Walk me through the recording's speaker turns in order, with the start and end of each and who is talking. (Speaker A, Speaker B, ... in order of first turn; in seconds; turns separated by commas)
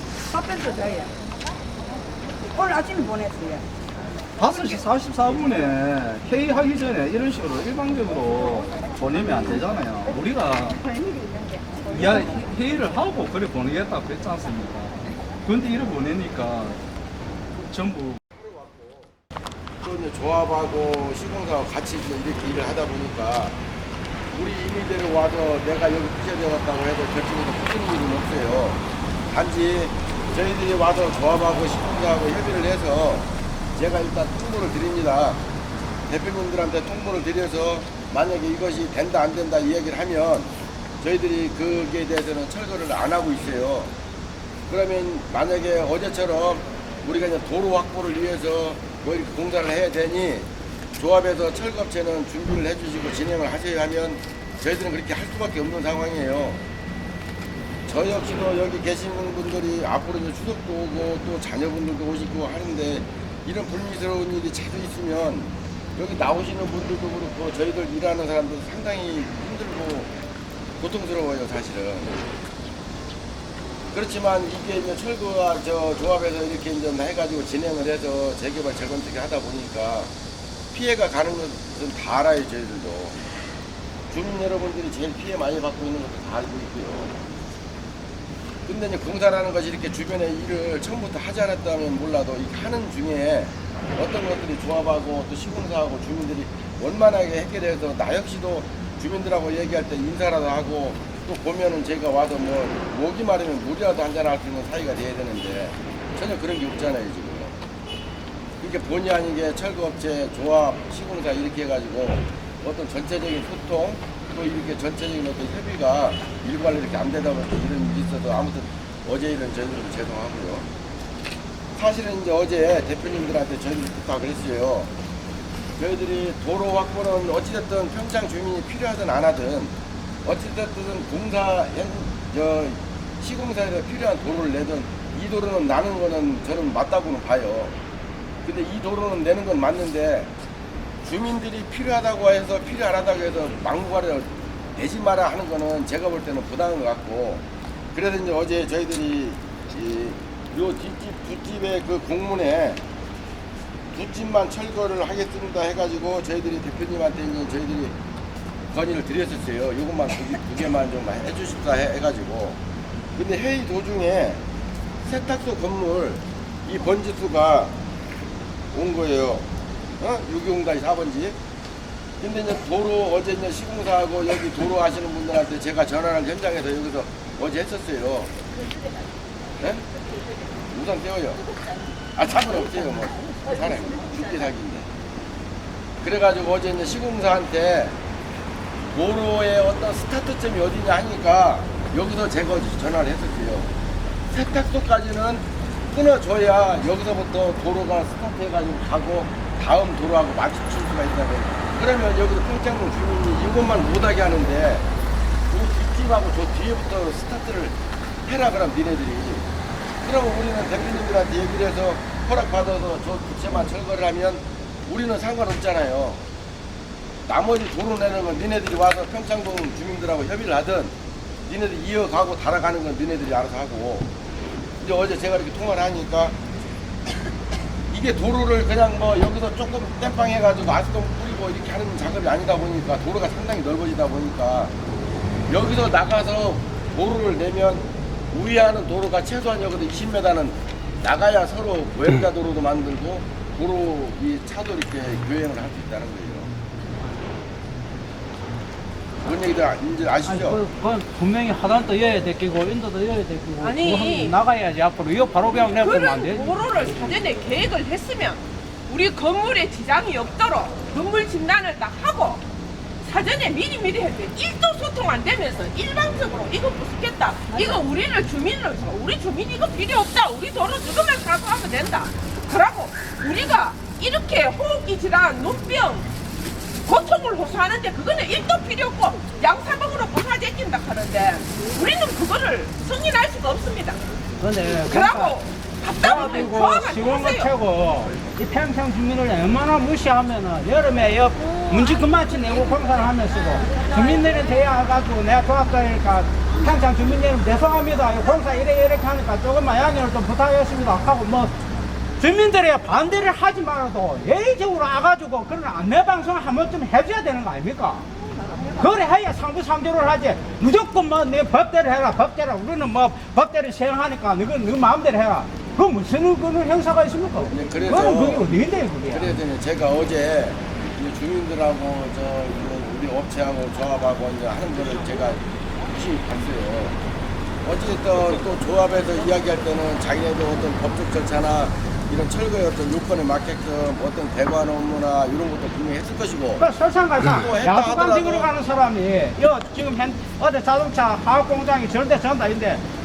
Speaker A: 0.3-1.1, Speaker A: 2.5-3.6, Speaker B: 4.4-10.8, Speaker A: 10.7-12.1, Speaker B: 11.9-16.8, Speaker B: 17.7-18.2, Speaker C: 18.4-19.0, Speaker C: 19.8-23.6, Speaker C: 24.3-35.4, Speaker C: 36.1-43.9, Speaker C: 44.7-56.6, Speaker C: 57.9-70.1, Speaker C: 70.8-72.2, Speaker C: 73.9-80.1, Speaker C: 80.7-83.2, Speaker C: 84.1-87.1, Speaker C: 88.7-107.5, Speaker C: 108.6-120.7, Speaker C: 121.8-124.9, Speaker C: 125.8-129.7, Speaker C: 130.2-137.7, Speaker C: 138.4-140.3, Speaker C: 141.0-152.8, Speaker C: 153.9-157.9, Speaker C: 158.7-162.6, Speaker C: 163.2-164.4, Speaker C: 165.0-167.7, Speaker C: 168.7-171.4, Speaker C: 172.2-178.3, Speaker C: 179.6-179.9, Speaker C: 180.7-181.4, Speaker C: 182.1-184.9, Speaker C: 186.0-187.9, Speaker C: 188.9-193.7, Speaker C: 194.3-204.9, Speaker C: 205.5-209.4, Speaker C: 210.0-216.2, Speaker C: 217.3-220.9, Speaker C: 221.4-224.1, Speaker C: 224.8-226.3, Speaker C: 227.9-234.7, Speaker C: 235.5-246.5, Speaker C: 249.2-250.6, Speaker D: 250.2-256.5, Speaker E: 253.6-254.3, Speaker E: 255.8-262.4, Speaker E: 263.0-276.1, Speaker E: 276.9-284.0, Speaker D: 284.4-285.4, Speaker E: 284.9-287.5, Speaker D: 286.0-301.5, Speaker D: 302.2-308.0, Speaker D: 308.8-319.3, Speaker C: 317.5-318.6, Speaker C: 319.1-325.4, Speaker C: 325.9-327.0, Speaker C: 327.6-336.6, Speaker D: 336.6-342.8, Speaker C: 337.2-338.5